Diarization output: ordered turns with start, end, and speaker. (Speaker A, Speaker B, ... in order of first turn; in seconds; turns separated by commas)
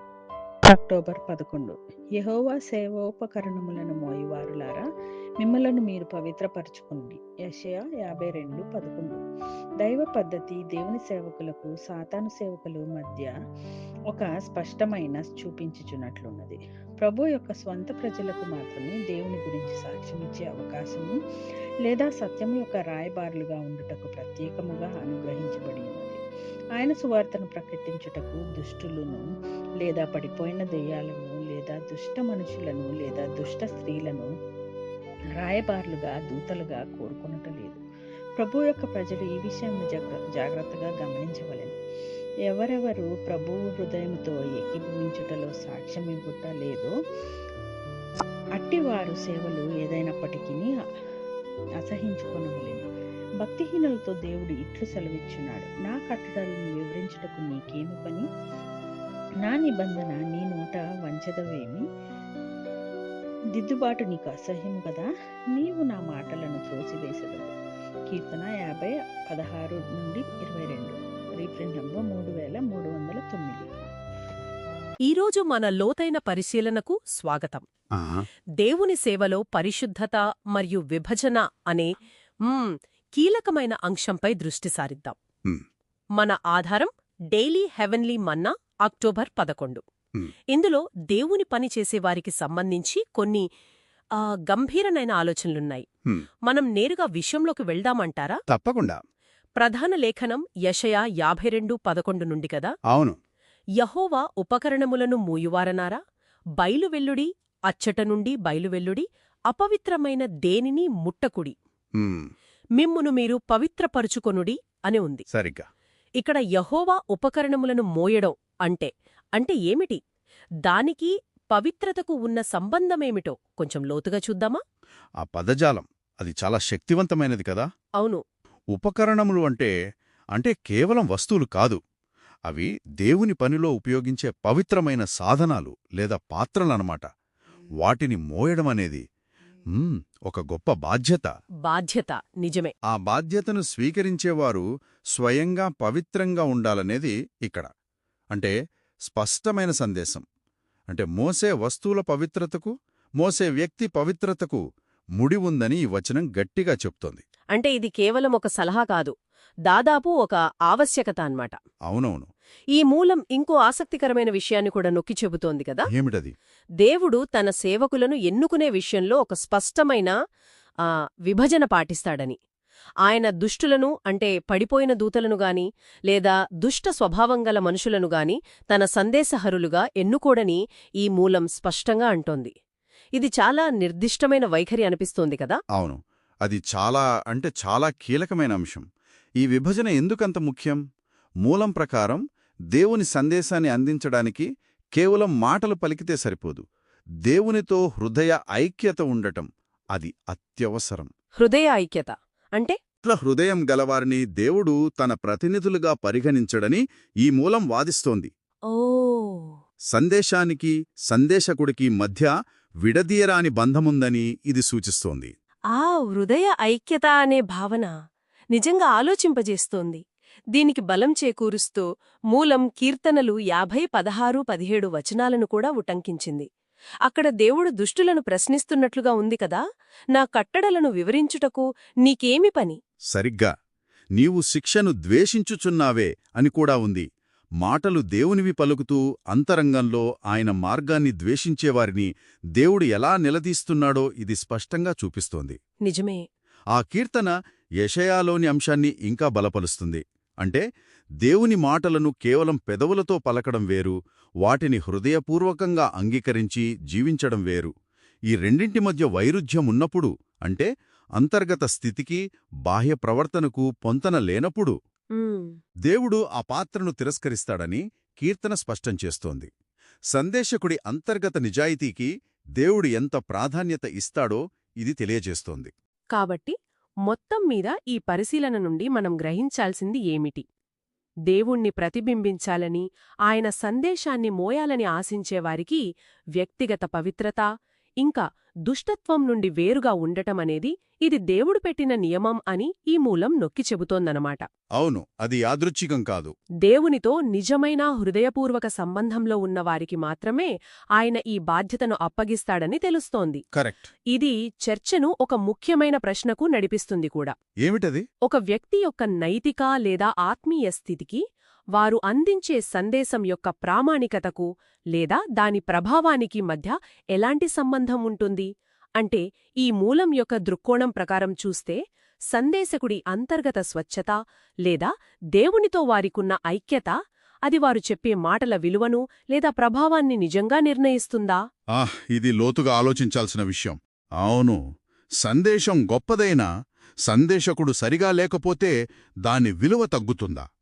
Speaker A: 0.7-4.8, Speaker A: 5.4-9.2, Speaker A: 9.8-13.3, Speaker A: 14.1-21.1, Speaker A: 21.9-26.2, Speaker A: 26.8-29.2, Speaker A: 29.8-34.3, Speaker A: 35.4-37.8, Speaker A: 38.4-41.8, Speaker A: 42.5-46.9, Speaker A: 48.6-50.7, Speaker A: 51.8-52.9, Speaker A: 53.4-58.2, Speaker A: 59.5-61.8, Speaker A: 63.6-67.5, Speaker A: 68.1-73.7, Speaker B: 75.1-77.7, Speaker C: 78.0-78.3, Speaker B: 78.6-81.9, Speaker B: 82.5-85.2, Speaker B: 86.2-89.8, Speaker B: 90.5-93.5, Speaker B: 94.2-95.8, Speaker B: 96.5-98.4, Speaker C: 98.5-99.0, Speaker B: 99.6-102.7, Speaker C: 102.9-103.2, Speaker B: 103.8-106.0, Speaker B: 106.6-111.5, Speaker C: 112.0-112.3, Speaker B: 112.8-115.2, Speaker C: 115.3-115.7, Speaker B: 116.2-120.0, Speaker B: 120.7-124.6, Speaker C: 125.2-127.7, Speaker C: 128.7-129.7, Speaker C: 130.3-131.8, Speaker C: 132.5-137.1, Speaker C: 137.8-139.0, Speaker C: 139.7-141.3, Speaker B: 141.7-142.7, Speaker C: 142.9-144.7, Speaker C: 145.2-147.7, Speaker C: 149.1-150.2, Speaker C: 150.9-154.6, Speaker C: 155.2-157.2, Speaker B: 157.5-159.1, Speaker B: 159.7-161.6, Speaker C: 161.9-162.3, Speaker B: 162.8-165.9, Speaker C: 165.9-166.3, Speaker B: 166.8-170.1, Speaker B: 171.3-172.4, Speaker B: 173.1-182.5, Speaker B: 183.2-185.6, Speaker C: 185.8-188.8, Speaker C: 189.4-190.8, Speaker C: 191.4-192.2, Speaker C: 192.7-196.6, Speaker C: 197.3-201.1, Speaker B: 201.4-202.8, Speaker C: 203.0-208.3, Speaker B: 208.7-209.6, Speaker C: 209.9-212.3, Speaker C: 212.8-215.3, Speaker B: 215.7-217.9, Speaker B: 218.5-220.0, Speaker B: 220.5-226.5, Speaker B: 227.1-229.6, Speaker B: 230.1-232.8, Speaker C: 233.1-233.5, Speaker C: 234.2-237.1, Speaker C: 237.6-245.6, Speaker B: 245.8-246.2, Speaker C: 246.7-250.6, Speaker C: 251.2-257.7, Speaker C: 258.3-264.8, Speaker B: 265.1-265.5, Speaker C: 265.9-269.5, Speaker C: 270.1-275.7, Speaker B: 276.1-276.5, Speaker B: 277.1-280.4, Speaker B: 281.3-285.8, Speaker B: 286.4-287.4, Speaker B: 288.0-294.4, Speaker C: 294.8-296.3, Speaker B: 296.6-303.4, Speaker C: 303.5-303.9, Speaker B: 304.1-307.4, Speaker C: 307.6-308.1, Speaker B: 308.2-311.2, Speaker B: 311.8-318.5, Speaker B: 319.0-321.8, Speaker B: 322.3-326.9, Speaker B: 327.5-331.4, Speaker C: 331.8-334.6, Speaker C: 335.2-336.5, Speaker C: 337.1-338.7, Speaker C: 339.2-340.4